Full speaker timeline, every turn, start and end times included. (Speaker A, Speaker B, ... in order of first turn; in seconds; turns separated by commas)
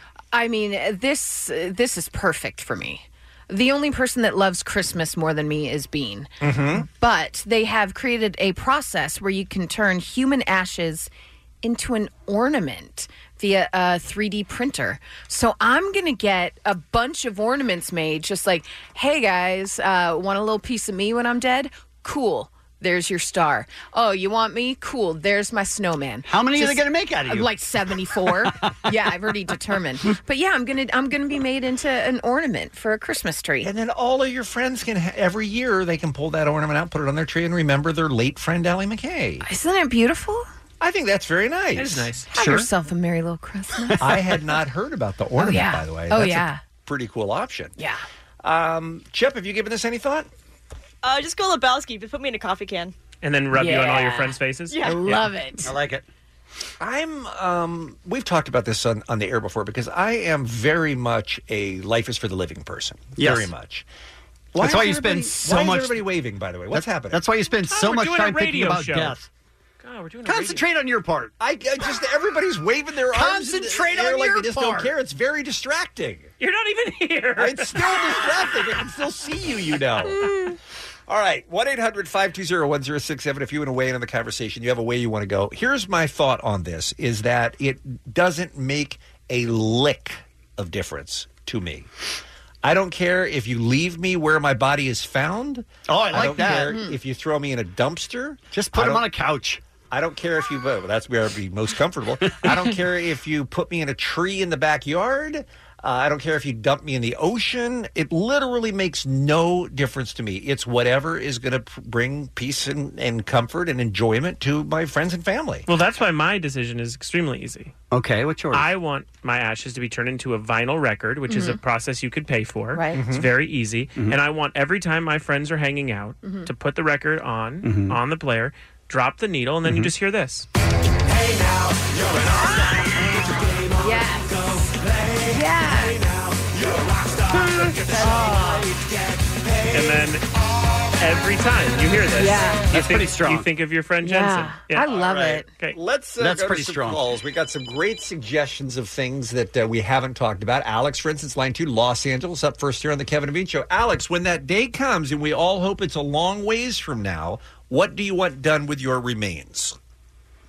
Speaker A: 0.3-6.3, Speaker B: 6.4-6.9, Speaker A: 6.8-11.1, Speaker A: 11.6-33.7, Speaker C: 26.3-27.5, Speaker B: 33.6-39.5, Speaker A: 39.4-40.5, Speaker B: 40.8-42.7, Speaker D: 41.8-42.3, Speaker A: 42.3-44.0, Speaker B: 44.0-47.8, Speaker A: 45.4-46.6, Speaker B: 48.4-50.3, Speaker E: 51.0-52.9, Speaker D: 53.2-55.2, Speaker A: 53.5-55.7, Speaker E: 54.7-55.0, Speaker C: 55.6-56.0, Speaker B: 56.8-63.9, Speaker C: 63.2-63.5, Speaker B: 64.5-67.2, Speaker C: 64.6-66.0, Speaker C: 66.7-69.3, Speaker D: 67.7-69.2, Speaker D: 69.8-70.7, Speaker C: 70.3-71.3, Speaker B: 71.4-76.3, Speaker C: 73.1-74.9, Speaker D: 76.4-78.3, Speaker B: 77.4-80.4, Speaker B: 81.1-91.9, Speaker B: 92.6-99.1, Speaker C: 95.9-96.8, Speaker C: 98.5-99.6, Speaker B: 99.9-115.7, Speaker D: 115.7-117.7, Speaker C: 117.9-118.7, Speaker D: 118.5-130.5, Speaker A: 121.3-121.6, Speaker A: 122.7-123.0, Speaker B: 122.9-123.3, Speaker A: 126.2-126.5, Speaker C: 127.6-128.0, Speaker A: 132.4-132.8, Speaker A: 133.8-134.7, Speaker A: 135.3-136.1, Speaker C: 137.3-138.7, Speaker D: 139.7-140.3, Speaker D: 141.0-145.8, Speaker A: 142.2-142.7, Speaker C: 142.7-143.5, Speaker A: 144.0-145.5, Speaker B: 144.8-159.8, Speaker C: 146.2-147.0